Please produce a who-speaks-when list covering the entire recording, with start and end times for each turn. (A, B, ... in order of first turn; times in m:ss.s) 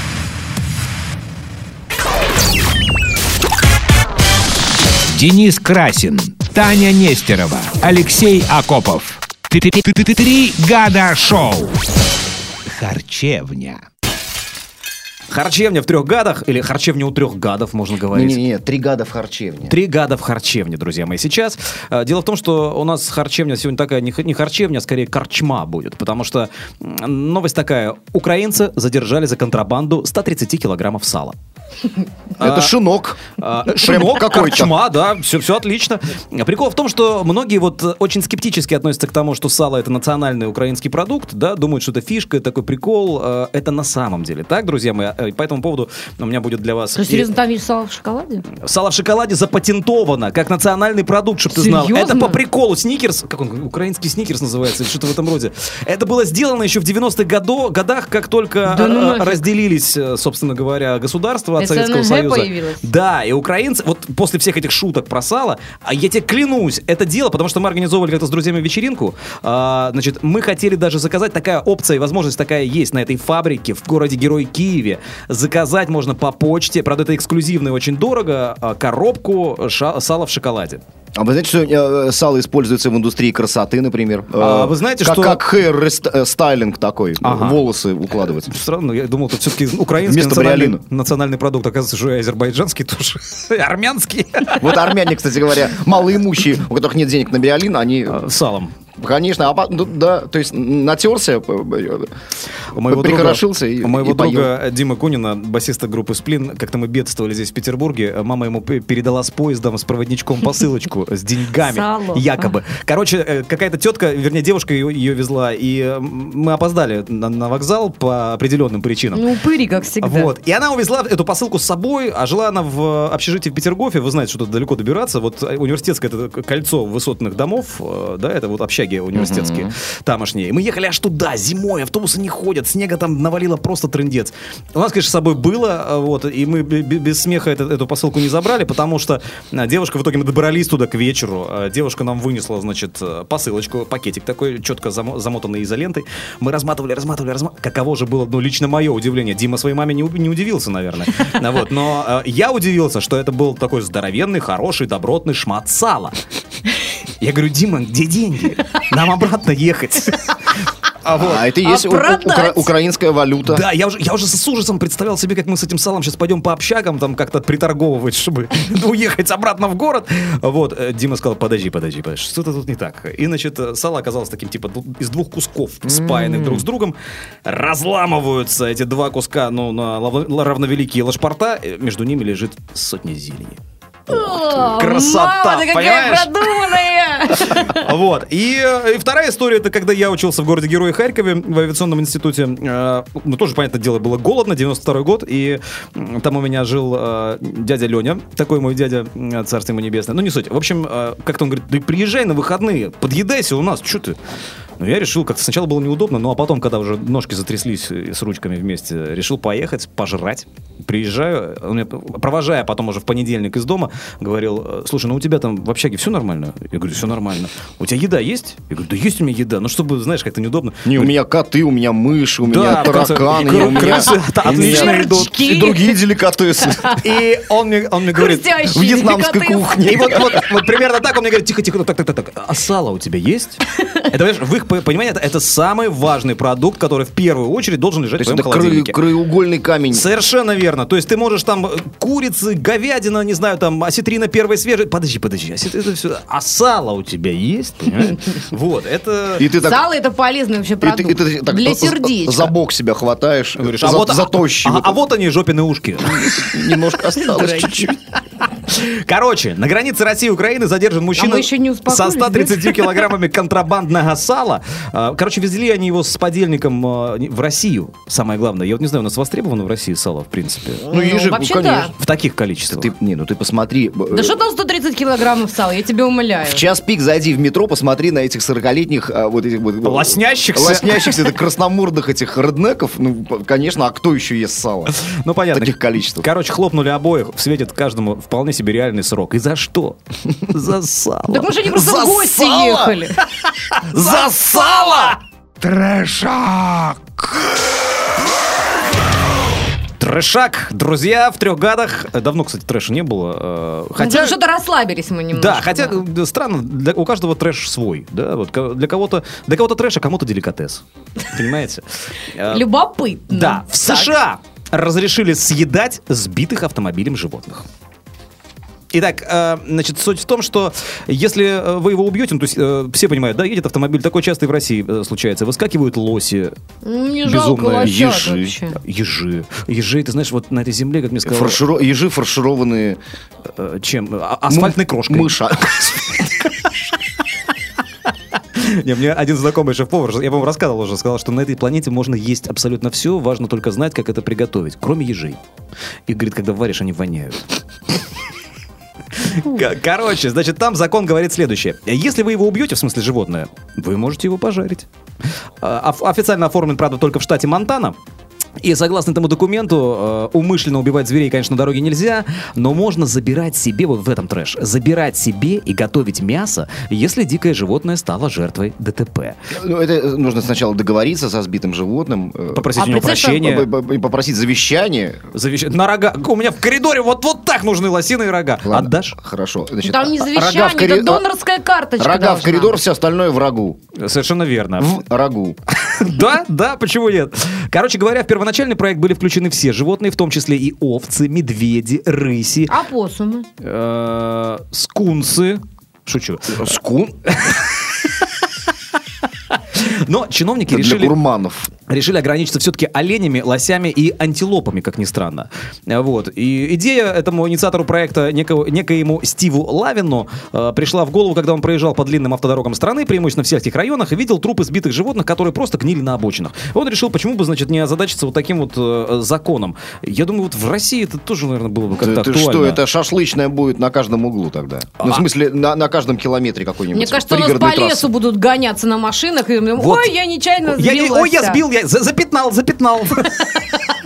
0:05.1-0:11.8 A
0:12.7-0:13.8 A
0:15.3-0:18.4 B
0:18.1-0:19.8 C
0:19.7-0:31.4 B
0:32.4-0:32.8 B
0:32.4-0:34.8 C
0:33.4-0:47.3 B
0:47.0-0:48.4 D
0:48.6-1:20.8 B
0:51.5-0:52.4 D
0:58.7-0:59.4 D
1:01.6-1:02.9 D
1:21.2-1:28.5 C
1:24.4-1:25.4 B
1:27.2-1:27.6 B
1:28.5-1:34.8 B
1:30.0-1:30.8 C
1:34.6-1:38.2 C
1:38.1-1:38.7 B
1:39.0-1:42.1 C
1:42.7-1:59.3 B
1:42.8-1:44.5 C
1:51.6-1:52.5 D
1:59.1-2:00.3 D
2:00.0-2:36.2 B
2:09.1-2:09.7 C
2:37.2-2:41.6 B
2:41.1-2:43.6 C
2:41.6-2:42.7 D
2:43.4-3:03.6 B
2:56.1-2:56.6 C
3:04.1-3:07.9 D
3:04.1-3:06.5 B
3:07.4-3:24.2 B
3:24.8-3:41.1 B
3:40.8-3:47.0 C
3:42.4-3:45.3 B
3:43.8-3:46.0 D
3:46.9-3:59.0 B
3:48.1-3:49.9 D
3:48.7-3:50.5 C
3:58.2-4:00.1 C
3:59.9-4:09.5 B
4:09.4-4:09.8 C
4:09.5-4:12.5 D
4:10.8-4:15.0 C
4:13.6-4:16.3 B
4:16.0-4:18.0 C
4:17.3-4:17.7 D
4:18.7-4:30.9 B
4:21.2-4:23.1 D
4:30.9-4:32.0 C
4:30.9-4:31.9 D
4:32.0-4:32.9 B
4:32.7-4:34.4 C
4:34.1-4:36.6 D
4:36.4-4:45.0 C
4:39.8-4:41.4 B
4:44.9-4:51.6 B
4:45.5-4:46.3 C
4:51.3-4:53.2 D
4:51.6-4:53.0 C
4:53.7-4:55.2 B
4:53.9-4:56.8 C
5:00.0-5:04.4 B
5:04.0-5:06.0 D
5:05.3-5:12.6 B
5:12.4-5:14.1 D
5:13.3-5:17.7 B
5:18.9-5:26.6 B
5:26.8-5:28.8 D
5:27.2-5:28.1 B
5:27.8-5:28.6 C
5:28.8-5:31.6 B
5:31.2-5:33.0 C
5:33.5-5:36.5 B
5:34.5-5:36.3 C
5:38.6-5:45.4 B
5:46.1-5:47.5 B
5:49.2-5:54.9 B
5:55.6-5:58.0 B
5:58.6-6:09.4 B
6:09.5-6:12.8 C
6:12.5-6:13.7 B
6:12.8-6:13.4 D
6:13.4-6:15.2 C
6:15.3-6:19.2 B
6:18.6-6:21.2 C
6:19.8-6:22.8 D
6:22.0-6:23.8 C
6:24.0-6:25.0 B
6:24.8-6:25.6 C
6:25.7-6:32.7 B
6:32.7-6:33.5 D
6:33.6-6:36.8 B
6:36.5-6:37.2 C
6:37.3-6:38.4 B
6:39.5-6:41.2 B
6:40.7-6:41.7 C
6:41.9-7:02.8 B
7:02.0-7:08.1 C
7:06.9-7:11.6 D
7:09.8-7:10.1 B
7:10.6-7:13.6 B